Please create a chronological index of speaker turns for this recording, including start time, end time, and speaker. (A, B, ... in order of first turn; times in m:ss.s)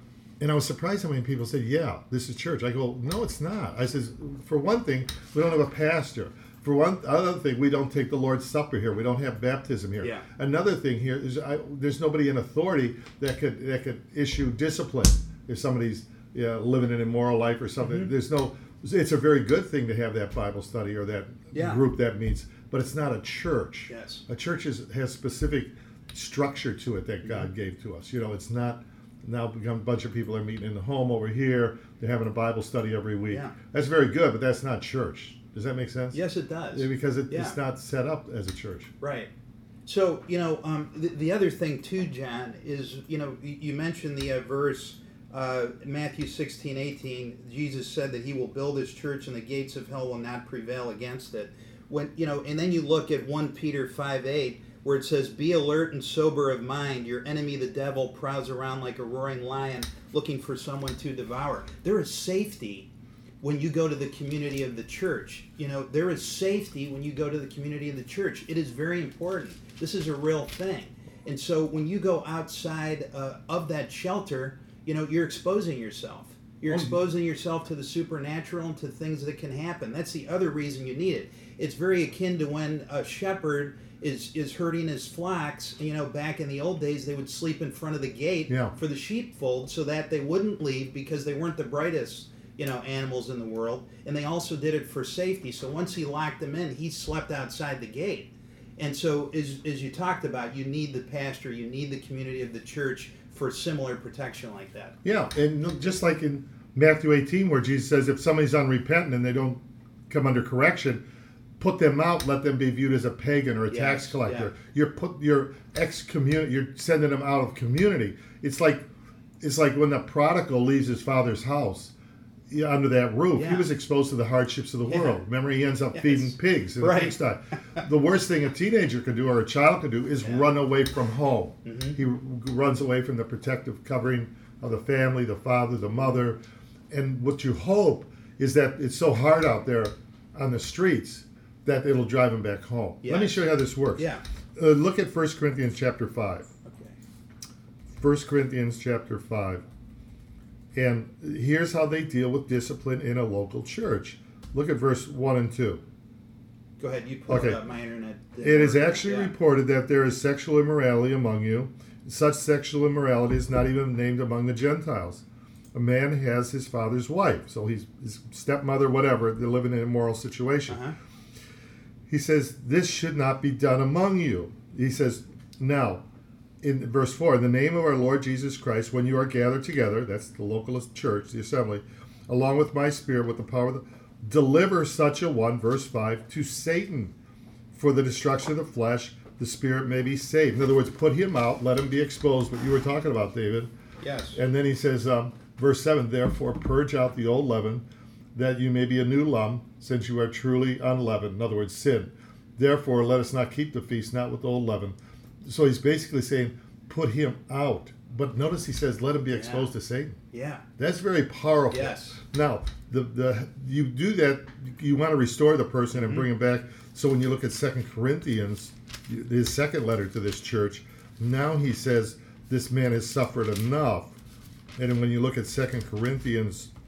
0:00.4-0:36.2 A
0:17.8-0:18.1 B
0:21.5-0:21.8 B
0:23.9-0:24.2 B
0:27.2-0:27.5 B
0:36.1-0:37.6 B
0:36.7-0:38.9 A
0:39.0-0:39.3 B
0:39.9-1:02.9 B
1:03.4-1:45.0 B
1:28.5-1:28.8 A
1:45.0-1:51.0 A
1:51.6-1:58.8 A
1:53.7-1:54.5 B
1:59.4-2:01.9 A
2:02.5-2:16.4 A
2:03.4-2:03.7 B
2:04.8-2:05.2 B
2:05.9-2:07.1 B
2:11.6-2:12.0 B
2:16.9-2:26.5 A
2:23.0-2:24.2 B
2:26.7-2:27.0 B
2:27.9-2:29.6 A
2:30.8-2:35.8 A
2:36.8-2:39.3 B
2:37.3-2:37.6 A
2:38.4-2:50.8 A
2:50.7-2:51.0 B
2:52.1-2:56.0 A
2:56.6-3:07.1 A
3:07.7-3:13.7 A
3:14.0-3:14.4 B
3:14.3-3:17.8 A
3:18.4-3:30.2 A
3:29.3-3:29.7 B
3:30.3-3:30.6 B
3:30.8-3:44.2 A
3:31.7-3:32.2 B
3:36.0-3:36.2 B
3:44.8-3:46.7 A